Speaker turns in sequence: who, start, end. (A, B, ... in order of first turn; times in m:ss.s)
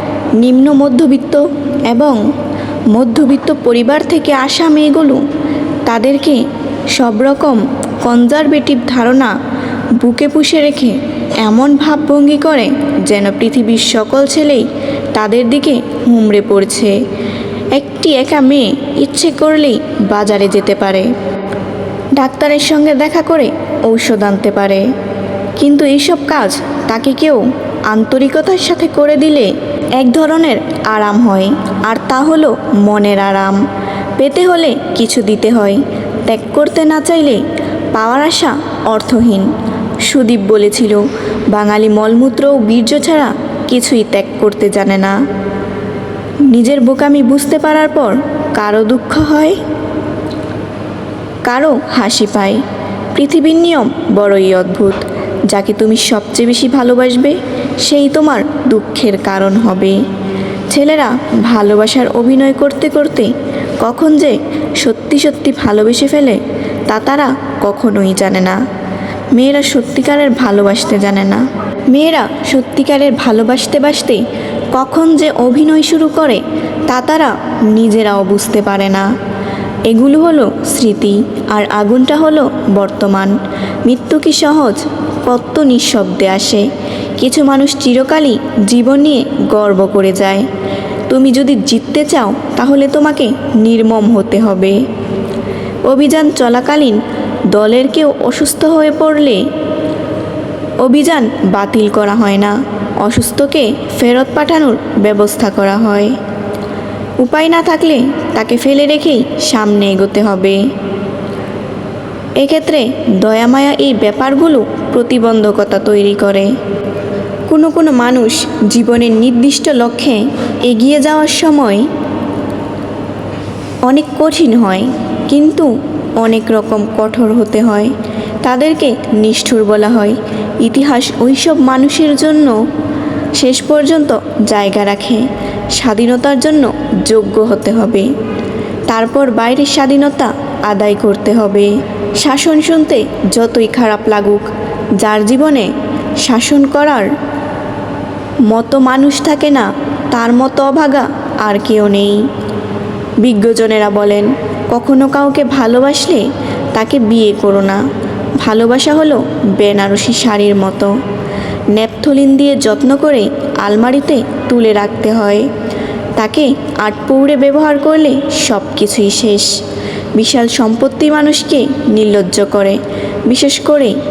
0:00.4-0:02.2 A
0:02.9-0:05.2 A
0:05.8-0:06.4 A
0:06.9-0:09.3 A
0:10.0-0:17.0 A
0:17.7-0:21.1 A
0:22.2-0:24.9 A
0:25.6-0:33.6 A
0:34.2-0:39.5 A
0:40.0-0:45.2 A
0:46.5-0:49.6 A
0:51.4-0:52.6 A
0:53.1-1:00.0 A
1:00.7-1:08.6 A
1:09.3-1:19.1 A
1:19.9-1:26.7 A
1:27.2-1:30.5 A
1:31.1-1:34.8 A
1:35.9-1:39.5 A
1:40.8-1:46.2 A
1:47.2-1:50.6 A
1:52.4-1:56.5 A
1:57.5-2:01.9 A
2:03.8-2:12.6 A
2:13.4-2:18.1 A
2:18.9-2:24.5 A
2:25.0-2:27.1 A
2:28.5-2:32.3 A
2:33.2-2:37.8 A
2:38.4-2:41.0 A
2:41.7-2:45.5 A
2:46.2-2:49.6 A
2:50.2-2:54.0 A